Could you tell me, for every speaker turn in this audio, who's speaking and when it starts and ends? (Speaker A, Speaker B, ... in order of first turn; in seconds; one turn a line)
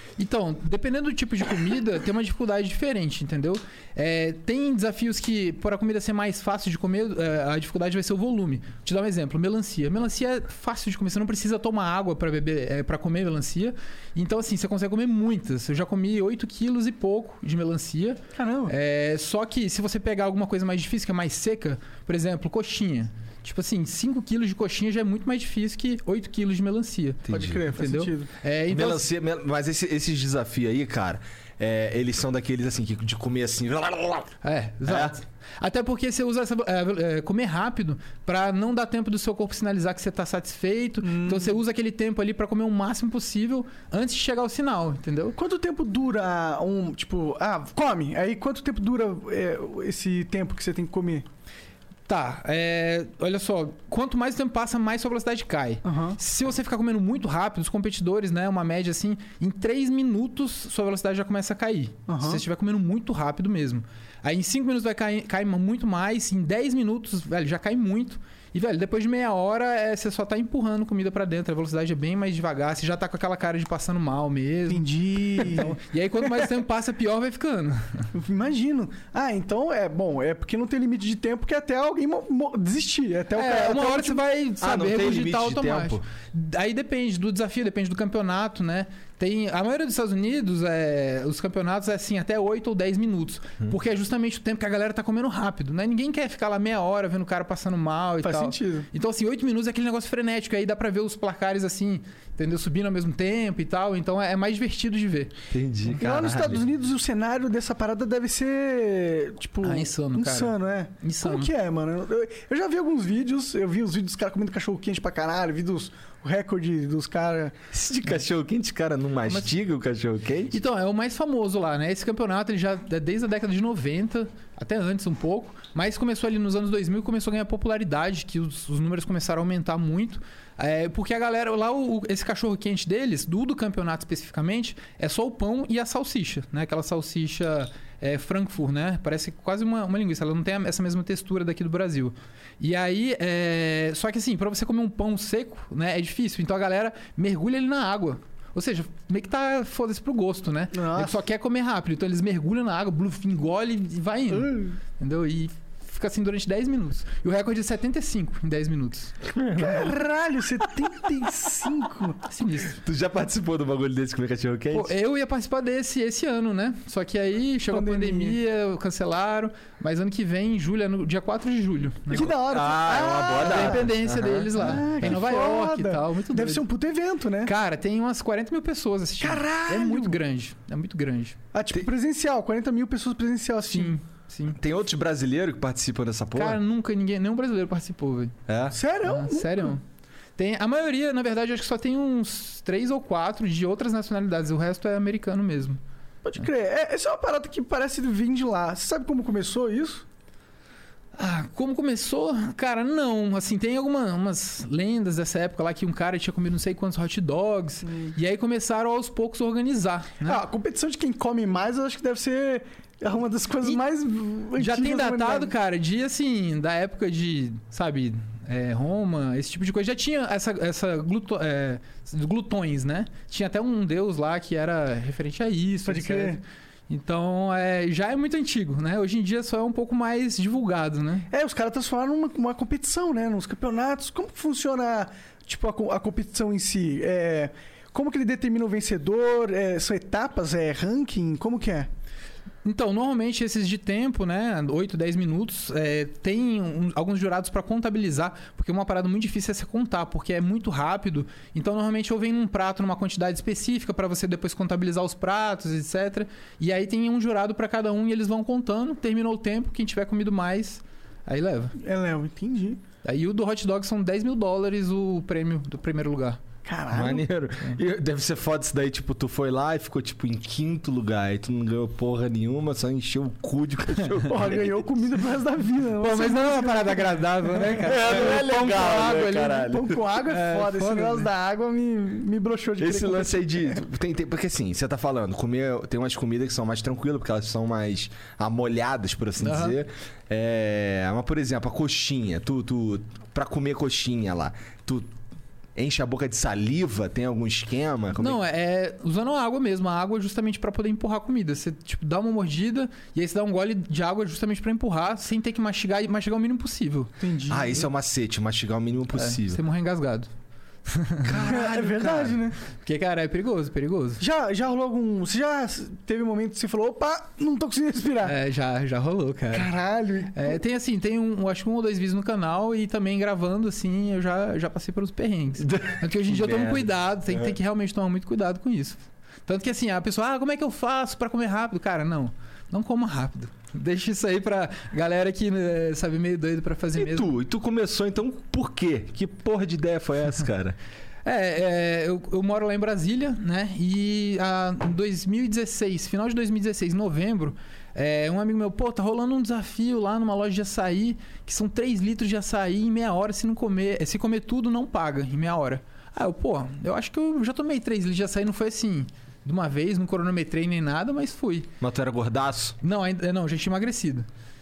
Speaker A: 0.2-29.1
Speaker B: 18.4-18.7
Speaker C: 27.3-27.6
Speaker B: 27.3-28.3
Speaker C: 28.7-34.3
Speaker A: 34.4-45.3
Speaker C: 34.8-35.2
Speaker B: 41.0-41.6
Speaker B: 45.4-51.3
Speaker A: 52.1-78.1
Speaker B: 55.8-56.2
Speaker B: 62.1-62.4
Speaker B: 74.7-75.8
Speaker B: 78.1-84.2
Speaker A: 83.3-105.3
Speaker C: 84.6-86.0
Speaker B: 98.2-98.9
Speaker C: 105.5-106.6
Speaker B: 105.9-117.5
Speaker A: 109.6-111.5
Speaker C: 117.7-120.5
Speaker A: 120.5-159.1
Speaker B: 150.7-151.1
Speaker B: 154.3-154.8
Speaker C: 159.2-160.0
Speaker B: 159.6-162.2
Speaker A: 162.3-162.8
Speaker C: 162.8-164.9
Speaker A: 164.7-172.3
Speaker B: 167.7-168.4
Speaker B: 172.1-173.9
Speaker C: 172.1-175.2
Speaker A: 173.4-176.6
Speaker B: 174.5-177.5
Speaker A: 177.4-181.4
Speaker B: 179.2-180.2
Speaker B: 181.5-183.9
Speaker A: 183.7-184.6
Speaker C: 184.5-186.6
Speaker A: 186.3-188.3
Speaker C: 188.5-188.8
Speaker B: 188.7-189.7
Speaker A: 189.0-189.8
Speaker A: 190.4-195.8
Speaker B: 196.2-200.0
Speaker A: 201.2-210.4
Speaker B: 207.8-208.1
Speaker B: 210.2-215.5
Speaker A: 214.6-231.3
Speaker B: 225.8-226.4
Speaker B: 231.3-241.9
Speaker A: 242.6-261.7
Speaker B: 261.8-262.8
Speaker A: 263.0-266.4
Speaker B: 266.6-267.2
Speaker C: 266.9-274.9
Speaker B: 274.2-277.7
Speaker A: 276.0-279.7
Speaker C: 277.8-280.0
Speaker B: 279.6-283.8
Speaker A: 280.2-281.3
Speaker C: 282.8-295.1
Speaker A: 289.4-289.8
Speaker C: 295.8-298.4
Speaker A: 298.2-307.1
Speaker B: 307.2-307.7
Speaker C: 307.5-309.6
Speaker A: 309.1-310.3
Speaker A: 310.9-311.4
Speaker C: 311.2-312.4
Speaker B: 311.4-312.6
Speaker A: 312.8-314.2
Speaker B: 314.2-318.4
Speaker A: 318.2-319.7
Speaker B: 319.5-320.6
Speaker A: 320.3-337.3
Speaker C: 325.6-327.5
Speaker C: 336.9-340.8
Speaker A: 341.2-361.7
Speaker C: 361.8-362.8
Speaker A: 362.8-364.3